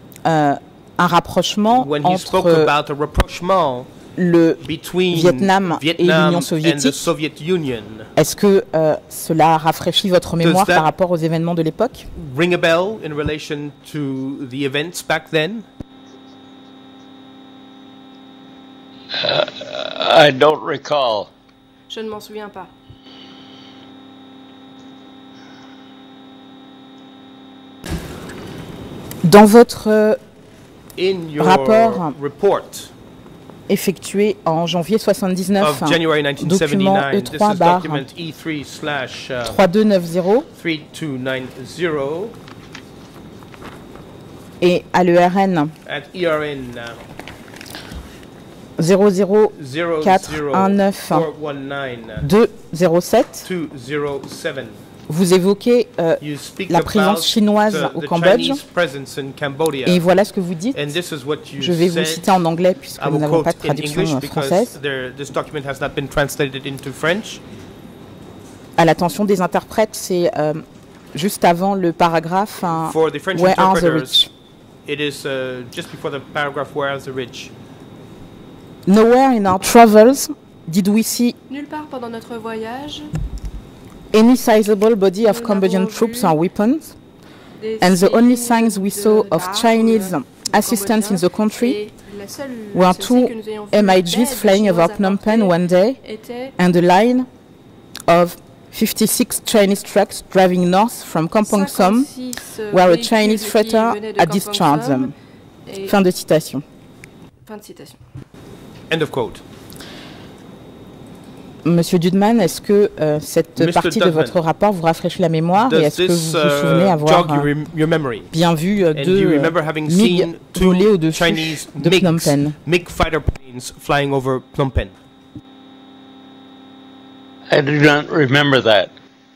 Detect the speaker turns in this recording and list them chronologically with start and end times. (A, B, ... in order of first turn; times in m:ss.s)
0:00.2-0:02.7 A
0:01.7-0:03.9 B
0:04.2-0:07.1 A
0:04.6-0:08.1 B
0:08.2-0:12.1 A
0:10.4-0:10.9 B
0:12.1-0:15.7 B
0:19.1-0:21.3 C
0:21.9-0:22.7 D
0:29.2-0:30.2 A
0:31.0-0:32.9 B
0:31.4-0:32.1 A
0:33.7-0:38.1 A
0:35.6-0:39.6 B
0:39.4-0:40.5 A
0:40.5-0:42.4 B
0:44.6-0:45.7 A
0:45.8-0:47.0 B
0:48.8-0:51.3 A
0:49.6-0:52.2 B
0:52.2-0:53.5 A
0:53.4-0:54.8 B
0:55.1-0:58.6 A
0:56.2-1:00.0 B
0:59.8-1:01.0 A
1:00.7-1:02.3 B
1:01.6-1:04.7 A
1:03.0-1:07.4 B
1:08.8-1:14.3 A
1:12.8-1:14.3 B
1:14.8-1:17.5 B
1:18.8-1:21.4 A
1:21.5-1:23.1 D
1:24.1-1:27.0 A
1:25.2-1:26.4 D
1:27.6-1:36.6 D
1:27.8-1:31.8 A
1:32.7-1:36.0 A
1:36.6-1:37.3 A
1:38.1-1:42.1 A
1:41.4-1:45.1 D
1:42.7-1:45.1 A
1:45.6-1:46.0 D
1:45.8-1:46.6 A
1:47.4-1:48.0 D
1:48.9-1:49.4 B
1:51.6-1:57.5 A
1:53.6-1:54.3 B
1:55.6-1:58.3 B
1:58.3-2:02.6 A
1:58.9-2:04.9 B
2:07.5-2:08.9 C